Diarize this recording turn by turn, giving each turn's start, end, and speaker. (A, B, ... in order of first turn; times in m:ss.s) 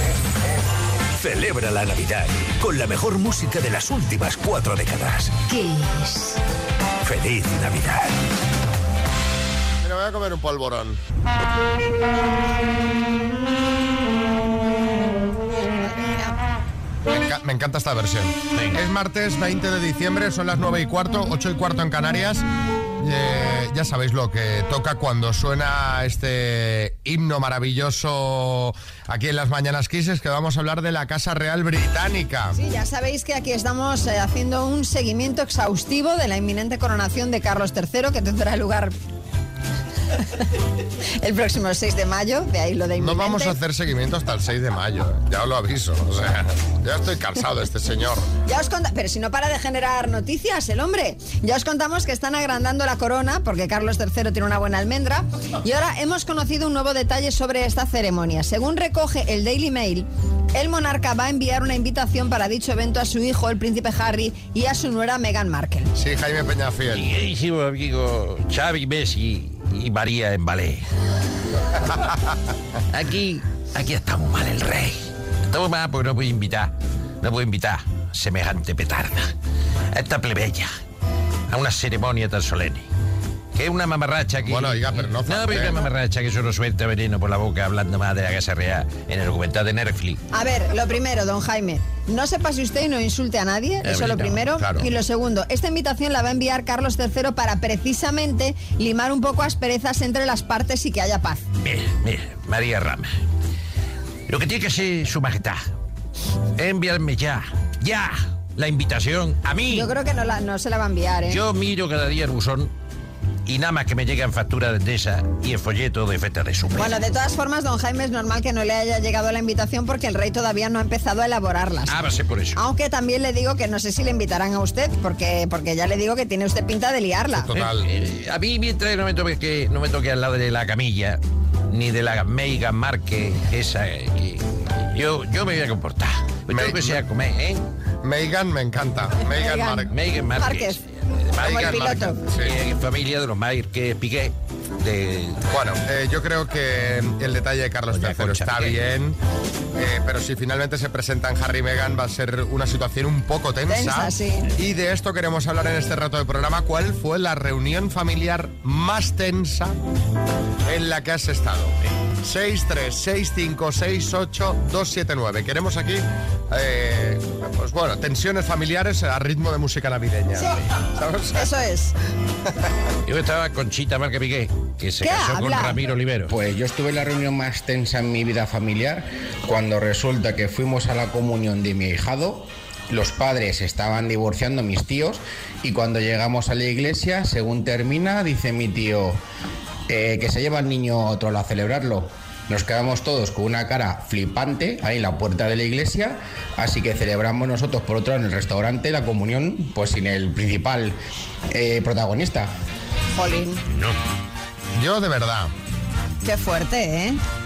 0:01.2-0:05.4 A
0:05.5-0:06.3 B
0:07.0-0:08.1 A
0:09.8-0:11.0 C
0:15.6-0:16.4 B
0:17.1-0:22.4 C
0:18.5-0:18.8 D
0:23.0-0:32.6 C
0:32.5-0:38.9 B
0:41.2-0:43.5 B
0:43.0-0:48.3 C
0:48.4-1:05.9 B
1:05.9-1:07.1 C
1:06.9-1:10.8 D
1:12.9-1:19.3 D
1:19.9-1:20.7 D
1:21.5-1:22.9 D
1:23.5-1:30.2 D
1:24.4-1:25.9 C
1:30.3-1:41.4 B
1:33.8-1:34.5 D
1:34.6-1:34.9 C
1:41.6-1:43.1 D
1:44.3-1:45.6 D
1:46.6-1:49.9 D
1:49.7-1:51.4 B
1:51.3-1:52.7 D
1:53.4-1:57.0 D
1:56.7-2:01.9 B
2:01.9-2:02.6 D
2:02.6-2:07.5 B
2:07.3-2:07.9 C
2:07.5-2:17.6 D
2:16.5-2:17.0 C
2:18.0-2:19.9 C
2:19.3-2:20.8 B
2:19.9-2:25.4 D
2:21.4-2:22.5 C
2:21.4-2:22.2 B
2:25.5-2:29.2 C
2:27.9-2:28.8 D
2:29.8-2:39.8 C
2:33.7-2:34.5 B
2:40.7-2:51.5 C
2:51.3-2:51.9 B
2:53.0-2:56.3 D
2:55.0-2:55.8 B
2:56.3-3:09.2 E
3:09.9-3:21.0 E
3:21.5-3:22.5 E
3:23.2-3:23.6 B
3:23.7-3:24.0 D
3:24.8-3:25.5 C
3:26.2-3:27.2 B